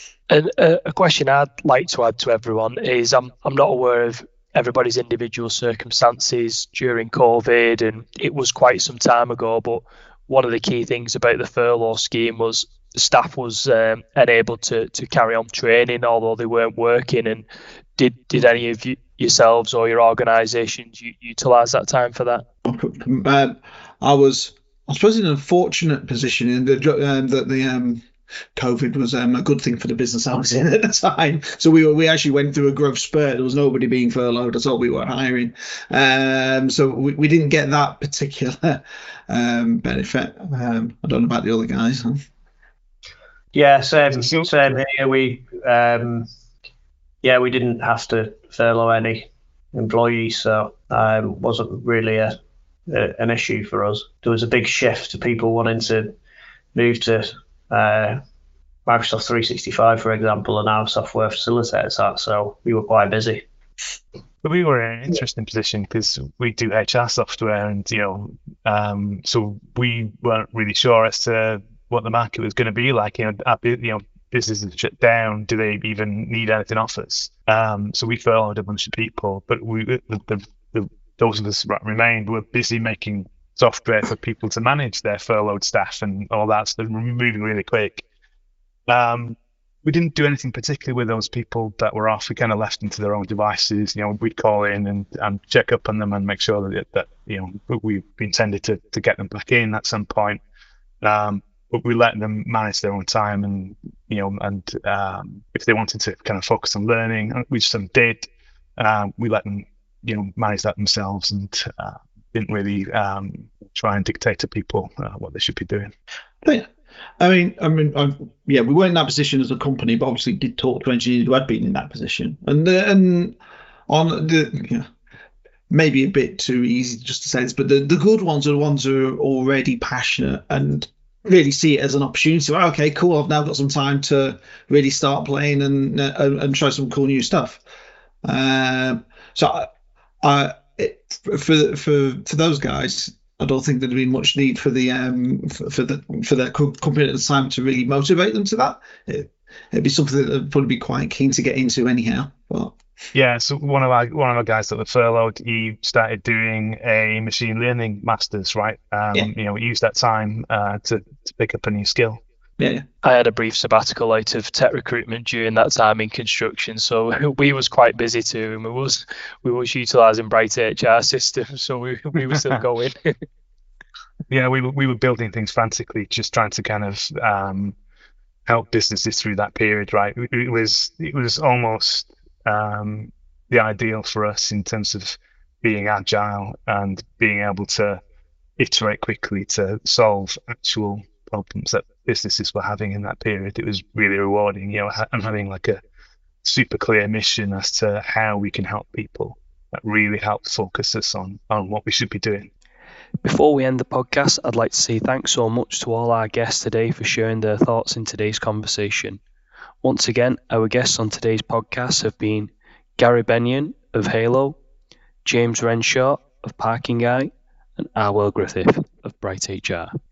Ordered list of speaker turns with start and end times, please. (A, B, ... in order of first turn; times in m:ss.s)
0:00.3-0:17.4 A
0:18.0-0:22.4 A
0:22.6-0:28.0 B
0:28.6-0:42.2 B
0:43.5-0:46.3 C
0:47.2-0:52.3 C
0:52.9-0:56.1 C
0:56.7-0:58.2 C
0:58.8-1:03.4 C
1:04.4-1:28.0 D
1:28.9-1:40.4 D
1:41.0-1:55.9 D
1:56.4-2:03.4 B
2:03.9-2:04.9 B
2:05.7-2:17.6 B
2:18.2-2:19.7 B
2:20.2-2:32.8 B
2:33.1-2:42.2 D
2:42.6-2:42.8 B
2:43.0-2:53.1 A
2:54.3-2:57.8 D
2:58.4-3:08.0 D
3:08.6-3:15.8 D
3:16.4-3:22.5 D
3:23.2-3:29.2 A
3:29.8-3:34.6 A
3:35.2-3:39.9 A